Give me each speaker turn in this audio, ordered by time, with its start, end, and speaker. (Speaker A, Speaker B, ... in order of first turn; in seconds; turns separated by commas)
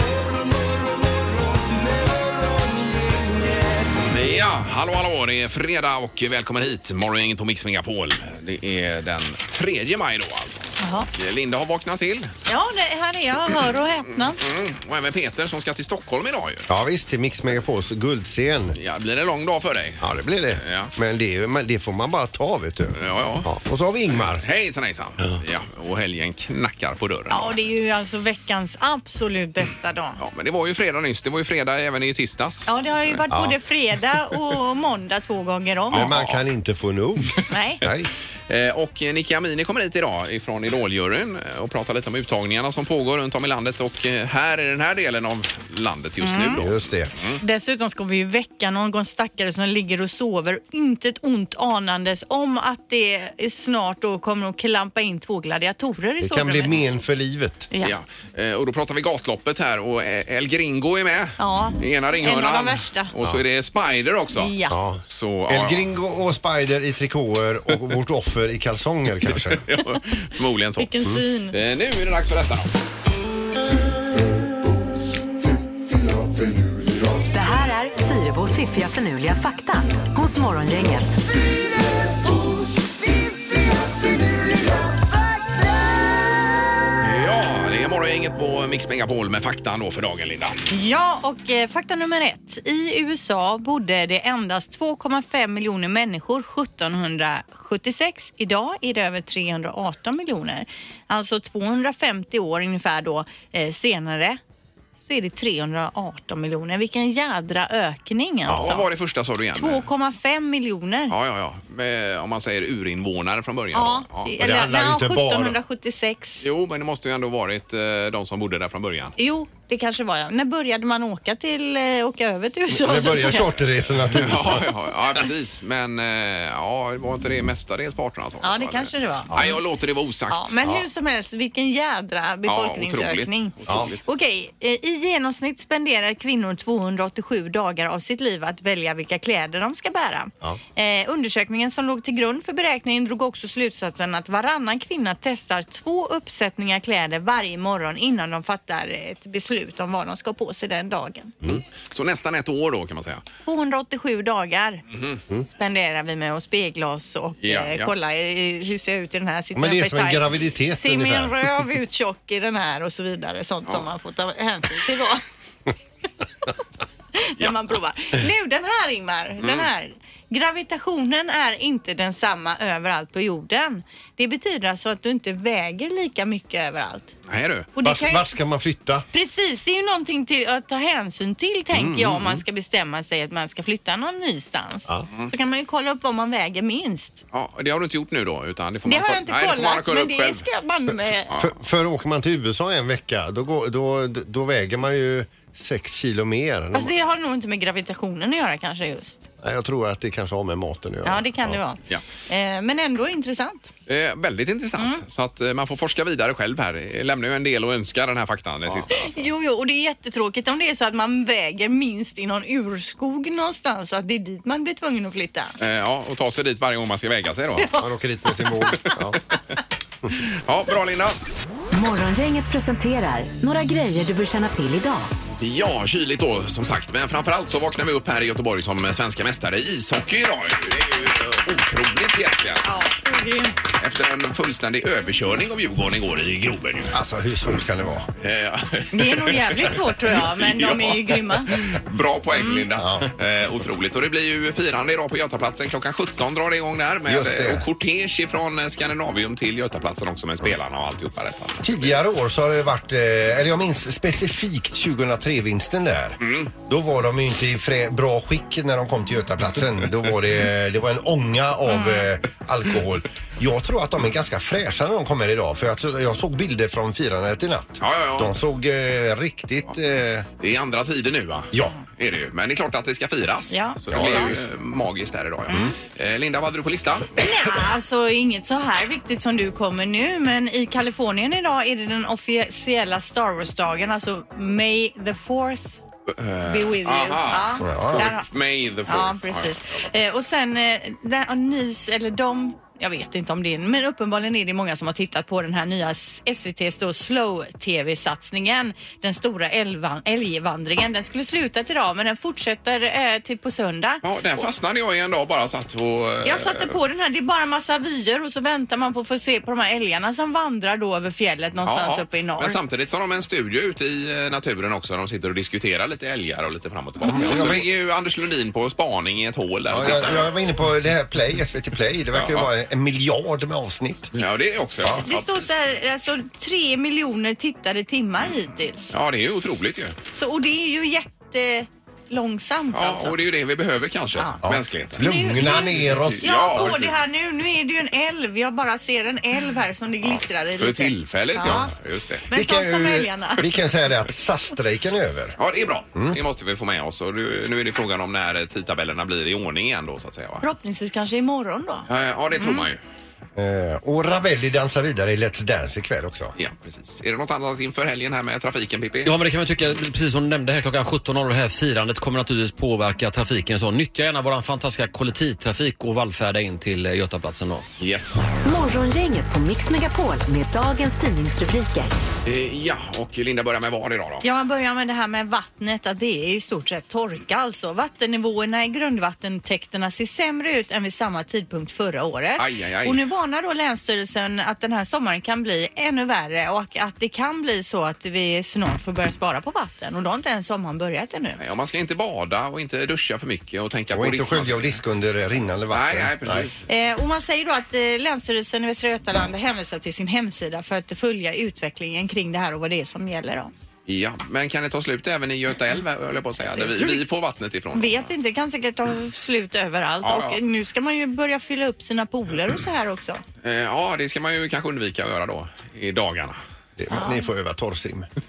Speaker A: 4.0-12.3, Speaker B: 10.8-11.1, Speaker B: 12.5-14.4, Speaker A: 14.4-16.7, Speaker C: 16.7-18.8, Speaker A: 18.8-20.1, Speaker C: 20.0-24.4, Speaker A: 20.6-20.9, Speaker A: 22.9-23.5, Speaker A: 24.4-27.5, Speaker B: 27.3-30.2, Speaker A: 30.2-33.2, Speaker B: 32.7-36.1, Speaker C: 33.3-33.5, Speaker A: 35.9-36.4, Speaker C: 35.9-38.1, Speaker B: 37.5-37.8, Speaker A: 38.5-47.4, Speaker B: 46.2-46.6, Speaker C: 46.5-47.1, Speaker B: 47.4-56.8, Speaker C: 56.2-57.7, Speaker A: 57.8-64.5, Speaker B: 61.4-63.1, Speaker B: 64.3-64.8, Speaker C: 64.7-69.6, Speaker A: 65.1-65.9, Speaker A: 69.3-70.9, Speaker B: 70.8-71.5, Speaker A: 71.5-72.7, Speaker D: 77.3-81.2, Speaker A: 87.0-90.6, Speaker B: 90.7-104.4, Speaker B: 105.0-108.9, Speaker A: 108.5-109.9, Speaker B: 109.5-111.1, Speaker A: 111.1-114.3, Speaker B: 113.7-116.4, Speaker C: 114.4-115.6, Speaker A: 116.4-119.1, Speaker B: 119.2-123.5, Speaker C: 122.7-124.8, Speaker A: 124.1-130.7, Speaker B: 128.4-129.6, Speaker B: 130.3-133.5, Speaker A: 132.4-134.0, Speaker C: 133.7-133.9, Speaker B: 134.1-151.3, Speaker A: 151.9-153.2, Speaker B: 153.4-154.8, Speaker A: 154.9-155.2, Speaker B: 155.5-165.2, Speaker A: 157.4-157.9, Speaker C: 159.5-161.3, Speaker B: 167.1-177.1, Speaker A: 169.4-169.7, Speaker A: 177.3-177.7, Speaker B: 177.8-178.3, Speaker C: 177.8-179.1, Speaker B: 179.1-187.2, Speaker A: 181.7-182.4, Speaker A: 187.3-190.4, Speaker B: 188.8-191.3, Speaker C: 191.3-196.9, Speaker B: 196.7-199.3, Speaker C: 199.4-201.6, Speaker B: 201.0-203.7, Speaker A: 203.9-209.2, Speaker B: 208.8-215.5, Speaker A: 215.6-217.7, Speaker C: 217.7-219.2, Speaker A: 220.1-221.2, Speaker D: 221.7-225.1, Speaker A: 225.4-232.6, Speaker B: 232.6-233.7, Speaker A: 233.8-236.9, Speaker C: 236.9-238.1, Speaker A: 238.2-239.8, Speaker B: 238.9-241.5, Speaker A: 240.3-251.9, Speaker B: 242.3-242.7, Speaker C: 242.8-243.1, Speaker C: 247.1-247.7, Speaker C: 251.6-270.3, Speaker A: 256.2-256.5, Speaker B: 261.7-262.1, Speaker A: 267.8-268.3, Speaker A: 270.4-277.2, Speaker B: 273.5-274.3, Speaker C: 273.9-274.4, Speaker C: 275.5-275.7, Speaker B: 277.2-285.8, Speaker A: 286.1-289.6, Speaker B: 286.4-288.3, Speaker C: 287.6-288.1, Speaker B: 288.9-304.4, Speaker A: 304.0-306.8, Speaker B: 306.2-312.6, Speaker A: 311.6-320.3, Speaker C: 317.0-317.7, Speaker C: 319.7-324.1, Speaker A: 322.1-322.5, Speaker A: 324.1-325.5, Speaker B: 325.0-328.9, Speaker A: 328.9-329.9, Speaker B: 330.1-333.1, Speaker A: 332.7-337.0, Speaker C: 334.4-336.8, Speaker B: 335.0-341.7, Speaker A: 340.6-342.2, Speaker C: 341.4-341.7, Speaker B: 342.3-343.4, Speaker C: 342.3-345.4, Speaker A: 345.4-350.4, Speaker B: 350.4-352.7, Speaker A: 351.9-352.8, Speaker C: 353.4-356.3, Speaker A: 356.4-359.1, Speaker E: 359.0-367.6, Speaker A: 367.8-368.3, Speaker D: 368.4-371.9, Speaker A: 372.2-374.2, Speaker B: 374.2-391.4, Speaker A: 382.4-383.0, Speaker A: 391.4-394.8, Speaker C: 393.9-396.5, Speaker A: 395.7-396.6, Speaker B: 396.7-403.5, Speaker A: 403.9-408.1, Speaker B: 406.6-407.0, Speaker B: 407.7-413.2, Speaker A: 410.0-410.4, Speaker A: 413.4-416.4, Speaker C: 416.8-418.1, Speaker B: 416.9-417.3